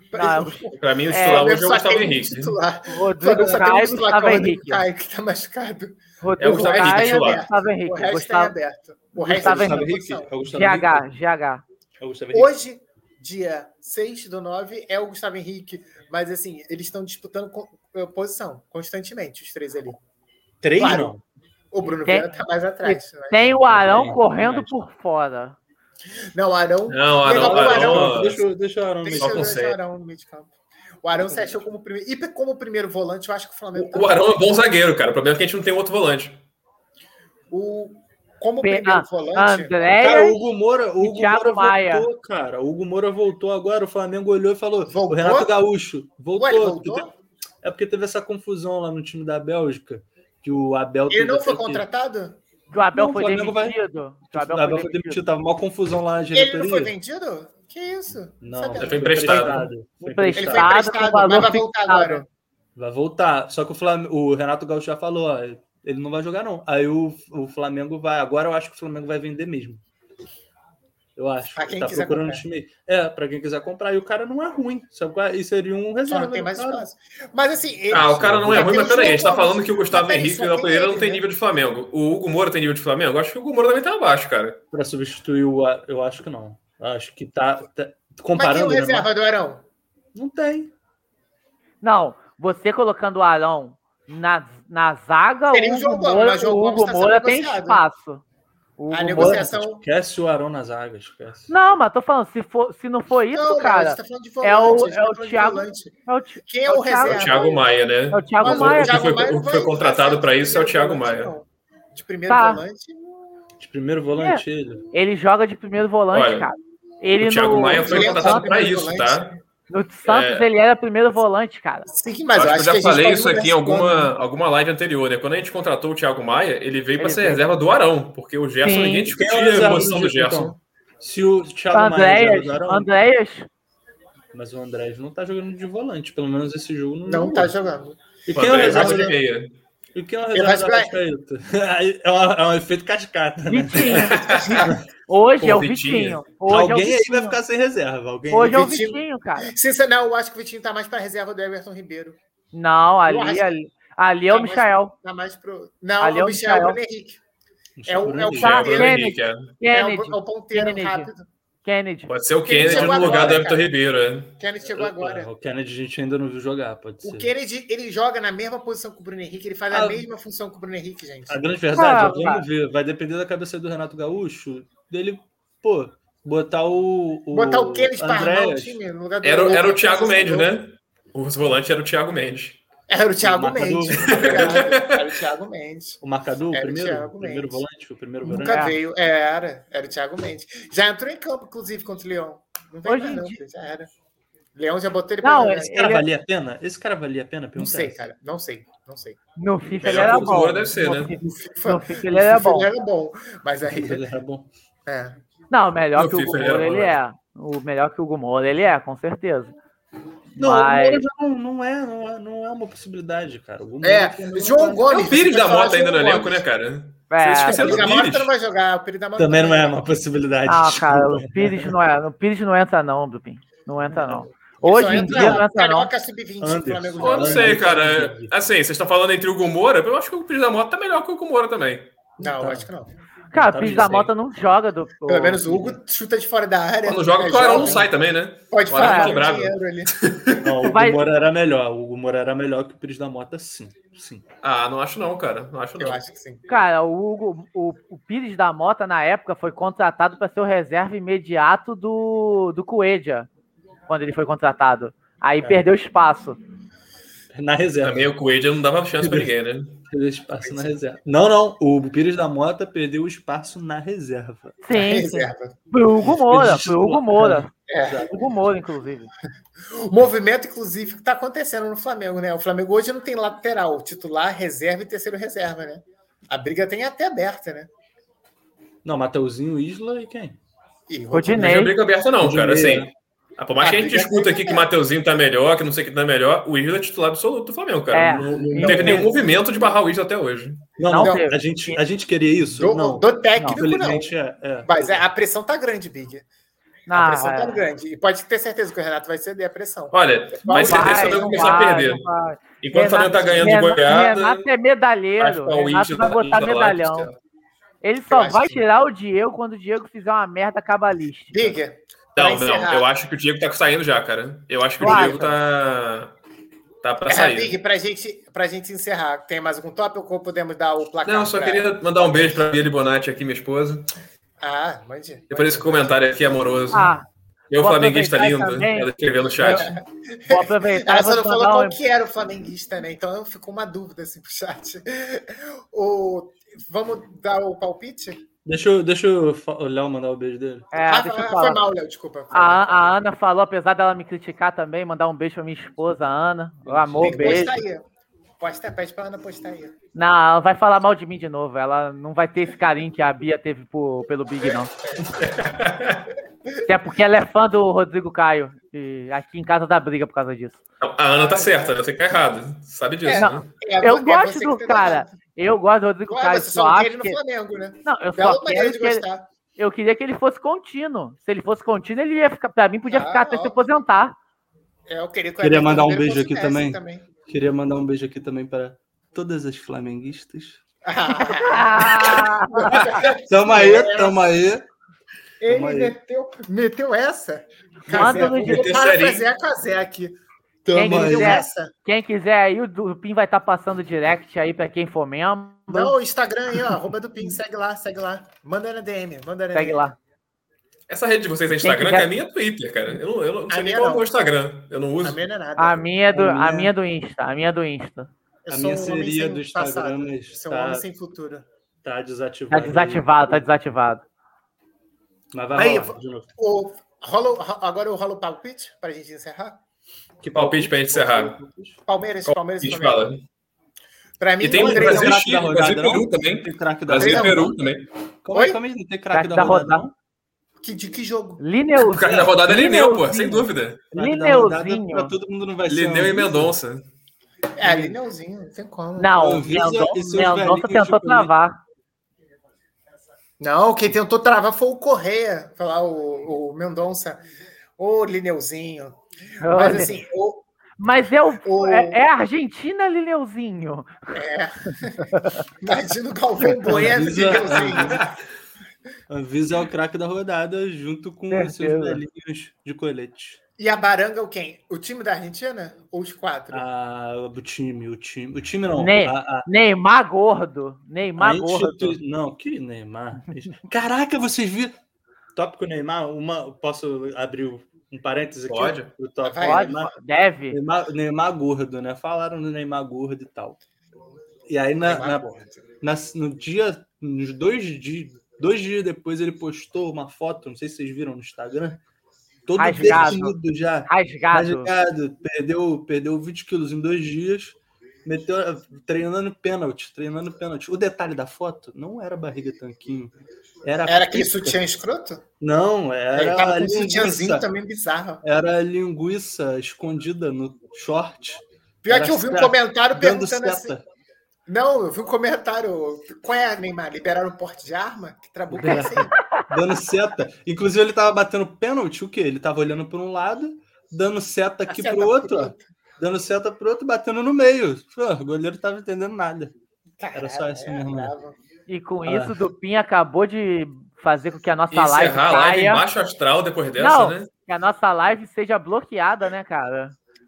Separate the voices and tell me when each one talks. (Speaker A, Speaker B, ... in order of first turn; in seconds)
Speaker A: 0.1-10.3, 12.3-20.0, 20.8-21.1, 21.7-23.5, 26.3-28.3, 29.0-34.4, 37.5-39.8, 44.9-45.5, 46.4-47.1, 51.1-52.4, 56.3-59.5, 60.4-62.3, 71.5-72.4, 76.1-81.2, 88.3-89.7, 95.5-97.8, 98.9-99.8, 103.3-105.9, 106.4-107.6, 108.4-113.3, 117.8-119.3, 121.9-124.1, 137.1-139.1, 140.3-141.0, 143.9-144.7, 148.4-152.2, 153.1-153.6, 154.3-157.2, 157.8-159.1, 159.7-161.3, 162.4-163.7, 164.4-165.3, 167.0-171.4, 177.3-180.5, 182.9-186.0, 186.5-187.6, 188.2-193.9, 194.6-195.7, 197.6-199.2, 201.2-204.1, 204.8-205.2, 213.8-216.4, 217.4-219.8, 224.6-228.0, 232.2-232.9, 235.1-237.9, 238.5-239.9, 245.8-246.4, 260.4-260.7, 264.7-265.6, 267.7-268.1, 269.7-277.7, 280.9-281.6, 283.6-284.7, 290.9-291.3, 292.6-294.1, 294.6-296.3, 296.9-301.7, 302.7-303.6, 308.1-308.6, 311.3-312.9, 314.8-315.4, 317.1-322.4, 324.4-325.8, 329.4-338.2, 340.8-342.8, 347.0-347.8, 348.4-349.7, 354.8-355.1, 361.1-361.5, 363.0-365.1, 366.1-369.3, 372.9-373.7, 374.9-377.1, 380.8-384.3, 385.4-390.2, 390.8-391.7, 395.7-399.9, 403.5-404.1, 405.0-405.9, 408.4-411.5, 415.5-419.6, 421.9-423.1, 424.2-425.2, 426.9-427.7, 428.3-428.6, 430.6-431.4, 437.6-439.4, 443.4-447.2, 447.8-450.4, 451.4-452.0, 454.1-458.1, 463.6-466.6, 479.2-479.9, 484.8-485.6, 503.9-505.2, 506.1-508.2, 511.8-513.8, 514.5-519.1, 524.7-525.6, 530.0-531.4
Speaker B: 0.1-1.5, 2.9-4.8, 6.2-8.6, 9.2-9.9, 10.4-11.6, 22.8-25.6, 38.6-40.4, 41.0-42.1, 52.7-55.2, 60.0-62.2, 91.8-98.2, 98.8-99.5, 101.5-107.3, 108.1-109.1, 112.3-112.6, 114.2-118.5, 119.7-121.9, 127.0-127.4, 128.6-129.1, 131.7-133.5, 143.5-144.6, 145.1-147.4, 148.3-149.5, 152.5-154.9, 156.0-156.8, 158.4-161.1, 161.6-162.1, 171.7-172.4, 188.5-188.8, 192.8-193.4, 195.2-196.1, 199.4-202.7, 205.5-209.6, 210.3-211.0, 217.1-217.8, 220.4-225.9, 233.3-235.7, 238.7-239.2, 240.6-241.0, 246.5-253.3, 253.9-256.4, 264.6-267.5, 268.1-269.1, 281.1-281.7, 287.9-289.1, 290.9-291.8, 293.4-293.6, 296.9-297.6, 300.4-302.4, 303.4-307.1, 307.8-311.5, 314.8-315.3, 326.7-327.1, 327.6-331.8, 340.7-341.6, 342.3-347.6, 349.9-354.7, 356.7-360.6, 363.1-367.2, 367.9-369.1, 369.6-374.1, 381.1-383.1, 387.9-388.7, 390.7-395.9, 399.5-399.9, 401.6-402.1, 405.6-408.1, 412.5-414.0, 429.1-429.9, 431.4-435.1, 439.0-441.6, 449.4-449.9, 450.8-454.1, 454.9-455.4, 461.3-462.0, 468.8-472.0, 479.4-480.6, 492.6-493.4, 493.9-494.7, 518.6-519.5, 531.7-535.8, 536.8-540.0
Speaker C: 0.8-2.6, 6.4-7.4, 26.9-28.4, 29.1-29.8, 33.7-36.4, 58.7-59.7, 77.9-84.6, 107.0-111.3, 116.1-116.5, 117.2-119.4, 120.1-120.5, 122.3-130.6, 138.3-139.6, 143.9-144.7, 145.4-146.2, 158.4-159.5, 162.1-164.4, 179.2-182.6, 183.9-185.1, 199.8-201.1, 205.9-207.0, 214.9-218.3, 227.0-231.9, 236.8-240.5, 244.4-246.0, 257.8-259.8, 281.4-290.7, 299.9-302.0, 302.6-304.5, 305.2-307.2, 312.1-316.1, 316.8-317.5, 321.0-323.9, 325.3-326.9, 327.5-329.8, 355.1-356.1, 360.8-363.4, 388.5-389.3, 400.9-405.2, 420.3-421.4, 422.3-423.2, 424.4-427.9, 431.7-433.8, 435.6-436.9, 457.5-457.8, 478.5-478.9, 534.7-537.3
Speaker D: 9.2-11.1, 12.0-12.5, 20.6-21.2, 23.6-24.7, 27.3-29.5, 31.1-31.6, 40.0-47.1, 47.6-51.9, 52.9-53.8, 54.3-56.9, 58.4-60.7, 62.7-69.8, 71.2-76.9, 77.9-79.0, 84.7-89.1, 90.1-90.7, 99.1-101.5, 113.6-114.8, 129.1-132.9, 134.3-137.5, 138.3-139.2, 139.9-144.8, 146.5-148.7, 157.8-158.6, 162.6-163.5, 164.7-167.3, 169.7-170.0, 171.3-178.8, 183.2-184.7, 186.0-188.7, 195.6-198.0, 203.7-204.5, 210.3-214.9, 217.7-218.0, 219.2-221.7, 223.9-224.3, 224.9-225.4, 226.4-228.3, 232.2-232.7, 233.3-234.1, 240.4-244.2, 257.3-258.1, 259.0-259.3, 259.9-264.6, 266.0-268.1, 278.8-280.4, 282.2-282.9, 288.2-288.9, 290.8-295.0, 338.4-340.7, 346.6-347.5, 375.4-380.6, 382.8-384.6, 385.5-385.9, 387.9-388.6, 390.6-391.5, 406.1-406.7, 408.5-410.9, 411.8-413.4, 415.3-416.3, 420.2-421.8, 424.5-427.6, 428.2-429.9, 433.9-436.5, 437.6-437.9, 439.2-441.3, 456.6-458.1, 459.1-463.4, 466.5-469.5, 471.2-474.8, 475.4-479.9, 480.5-483.6, 484.5-491.8, 492.5-504.6, 505.4-507.4, 508.2-513.9, 518.5-529.5, 530.1-531.1, 532.1-532.4